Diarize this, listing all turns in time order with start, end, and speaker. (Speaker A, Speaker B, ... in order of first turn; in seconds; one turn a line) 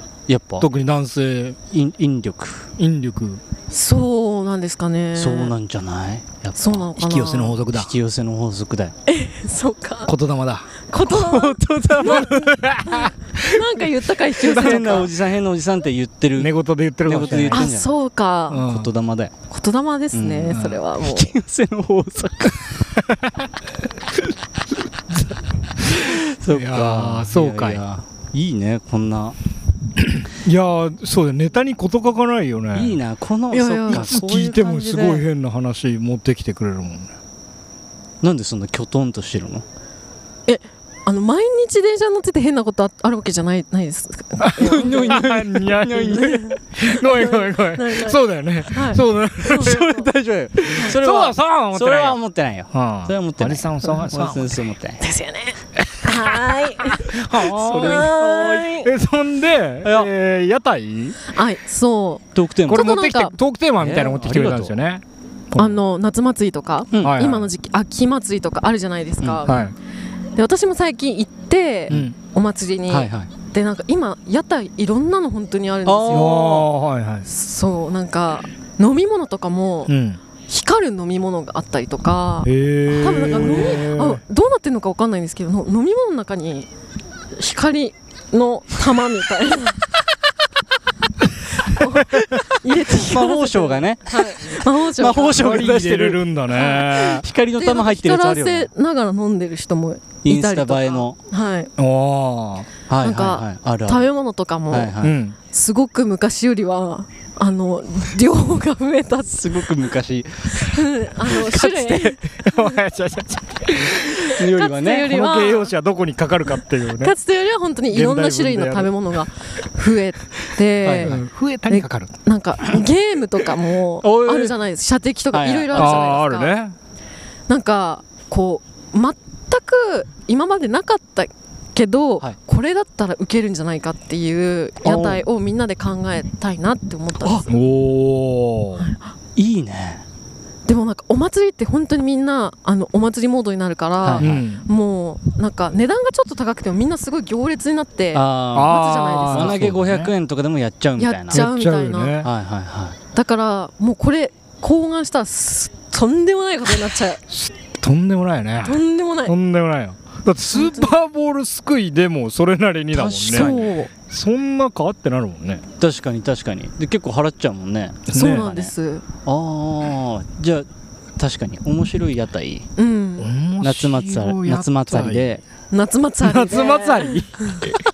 Speaker A: 0.3-0.7
Speaker B: 0.6-1.6
Speaker A: 1.7-2.7
Speaker B: 2.8-3.4
Speaker C: 3.7-5.5
Speaker A: 5.1-6.9
Speaker C: 6.5-7.6
Speaker B: 7.0-7.9
Speaker A: 7.7-8.9
Speaker C: 9.1-10.1
Speaker B: 10.1-10.7
Speaker C: 10.9-15.1
Speaker A: 11.0-12.5
Speaker B: 12.0-13.8
Speaker A: 14.4-17.9
Speaker B: 14.5-14.9
Speaker B: 16.4-17.6
Speaker C: 17.5-18.6
Speaker B: 18.5-18.9
Speaker A: 18.5-19.3
Speaker C: 19.5-21.3
Speaker A: 20.1-22.9
Speaker B: 20.5-20.8
Speaker B: 23.1-23.4
Speaker B: 25.8-27.8
Speaker A: 25.9-29.4
Speaker B: 30.1-33.0
Speaker A: 32.7-35.2
Speaker C: 33.5-34.1
Speaker B: 33.9-37.1
Speaker A: 38.2-39.6
Speaker C: 40.5-45.2
Speaker B: 44.4-49.9
Speaker A: 44.6-46.5
Speaker C: 47.0-50.0
Speaker A: 49.4-55.0
Speaker B: 50.6-52.2
Speaker B: 52.7-54.6
Speaker C: 55.0-57.2
Speaker B: 57.0-58.1
Speaker A: 57.5-58.8
Speaker C: 57.7-58.9
Speaker B: 58.8-61.2
Speaker A: 59.8-60.1
Speaker C: 61.3-63.4
Speaker A: 62.3-62.9
Speaker B: 62.7-65.8
Speaker A: 63.8-64.7
Speaker C: 65.6-69.7
Speaker A: 66.9-67.2
Speaker B: 67.0-67.5
Speaker B: 69.5-69.7
Speaker C: 70.3-76.5
Speaker B: 71.9-72.1
Speaker A: 72.9-73.3
Speaker A: 75.8-76.7
Speaker B: 76.1-77.3
Speaker C: 77.3-79.9
Speaker B: 79.9-80.2
Speaker C: 80.5-86.7
Speaker B: 82.4-84.2
Speaker C: 87.3-89.8
Speaker C: 91.6-95.4
Speaker A: 92.5-98.7
Speaker B: 95.3-97.2
Speaker C: 96.5-97.0
Speaker C: 97.6-101.7
Speaker A: 100.2-101.2
Speaker B: 101.8-102.7
Speaker A: 102.9-104.1
Speaker C: 103.0-104.9
Speaker A: 104.7-105.2
Speaker B: 105.0-105.3
Speaker C: 105.4-109.7
Speaker A: 109.3-112.2
Speaker C: 110.5-112.6
Speaker B: 112.4-114.4
Speaker A: 114.3-115.2
Speaker C: 114.3-115.7
Speaker B: 115.0-117.1
Speaker C: 117.0-126.5
Speaker B: 117.9-118.9
Speaker A: 120.8-121.1
Speaker B: 121.0-122.1
Speaker A: 124.0-124.6
Speaker A: 125.3-126.2
Speaker B: 125.7-126.8
Speaker C: 127.5-137.5
Speaker A: 134.8-135.2
Speaker B: 137.5-138.8
Speaker A: 139.3-140.0
Speaker C: 140.7-149.6
Speaker A: 144.0-144.4
Speaker B: 144.2-144.7
Speaker A: 148.1-151.4
Speaker B: 148.5-150.1
Speaker C: 151.0-152.2
Speaker B: 151.3-152.3
Speaker A: 152.2-153.0
Speaker C: 153.1-157.2
Speaker B: 157.3-163.5
Speaker C: 158.6-159.3
Speaker C: 160.5-160.9
Speaker A: 162.9-163.7
Speaker C: 163.3-163.9
Speaker B: 164.1-165.6
Speaker A: 165.8-168.7
Speaker B: 168.1-168.5
Speaker C: 168.1-169.0
Speaker A: 169.2-170.7
Speaker A: 171.2-172.7
Speaker C: 172.8-173.3
Speaker B: 173.2-175.2
Speaker A: 173.6-175.4
Speaker C: 175.7-177.7
Speaker B: 176.2-177.8